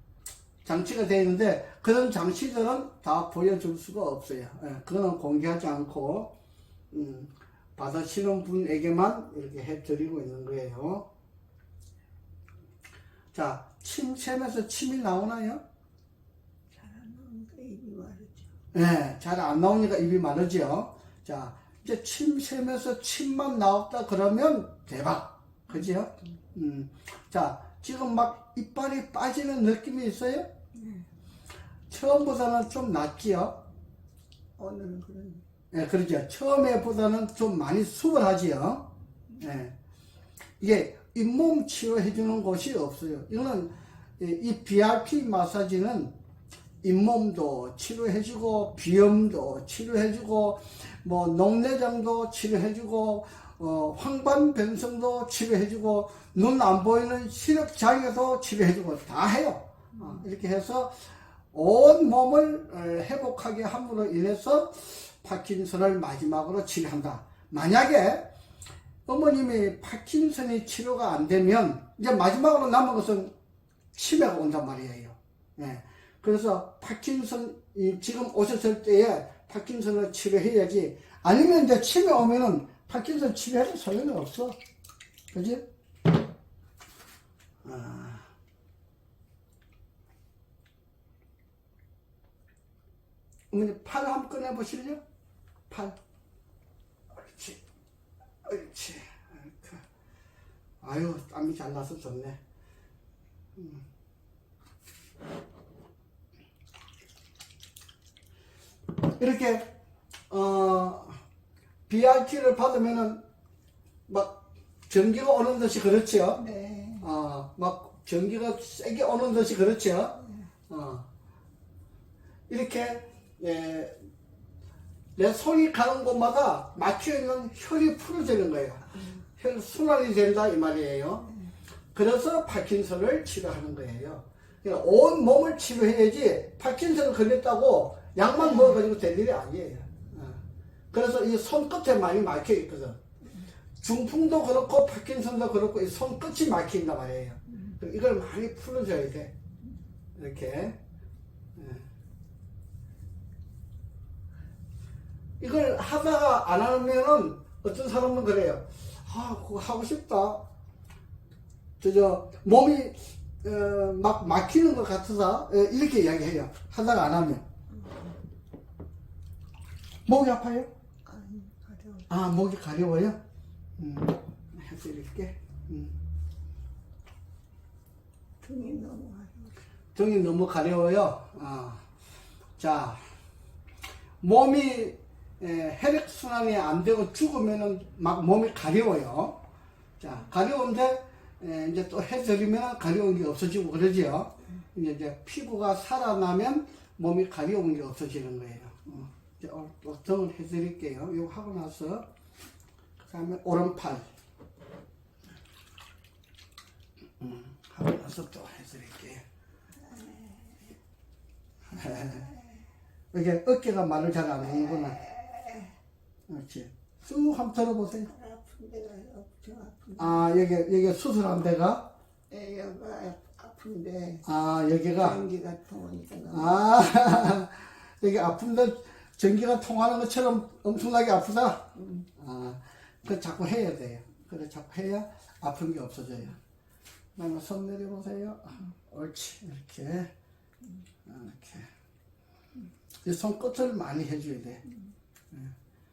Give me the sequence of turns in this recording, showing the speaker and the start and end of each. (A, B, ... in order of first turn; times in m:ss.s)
0:00.6-0:06.3 A
0:06.9-0:11.1 A
0:13.3-0:15.6 A
0:16.7-0:18.5 B
0:18.7-0:30.5 A
0:30.8-0:31.0 B
0:31.9-0:33.6 A
0:34.6-0:35.4 B
0:35.7-0:38.9 A
0:39.4-0:39.7 A
0:40.6-0:46.1 A
0:46.8-1:00.9 A
1:01.5-1:08.3 A
1:09.1-1:13.3 A
1:13.9-1:24.6 A
1:25.3-1:25.6 A
1:27.6-1:28.2 A
1:33.5-1:35.0 A
1:35.7-1:36.0 A
1:37.2-1:37.6 A
1:38.4-1:39.8 A
1:40.8-1:42.4 A
1:43.6-1:43.8 A
1:49.2-1:49.7 A
1:50.3-1:51.2 A
1:51.9-1:53.2 A
1:54.1-1:56.4 A
1:56.4-1:57.1 B
1:57.0-2:01.0 A
2:02.5-2:03.9 A
2:05.2-2:11.3 A
2:12.0-2:20.4 A
2:20.9-2:23.0 A
2:23.8-2:29.3 A
2:30.2-2:30.8 A
2:31.6-2:31.9 A
2:35.4-2:40.4 A
2:41.8-2:47.4 A
2:47.7-2:48.2 B
2:50.1-2:50.7 A
2:51.1-2:52.1 B
2:52.1-2:53.2 A
2:53.8-2:56.0 A
2:58.4-2:59.6 B
3:00.0-3:01.8 A
3:02.6-3:03.0 A
3:04.2-3:09.4 A
3:10.0-3:22.1 A
3:23.0-3:24.1 A
3:27.2-3:29.2 A
3:29.8-3:30.7 B
3:31.7-3:32.3 A
3:31.8-3:32.3 B
3:33.1-3:35.0 A
3:34.5-3:35.7 B
3:36.3-3:38.1 A
3:38.0-3:40.2 B
3:40.0-3:41.9 A
3:42.3-3:44.3 B
3:44.2-3:45.2 A
3:45.0-3:46.7 B
3:46.3-3:56.4 A
3:51.8-3:52.0 B
3:57.2-4:00.1 A
4:01.1-4:01.7 A
4:03.0-4:04.6 A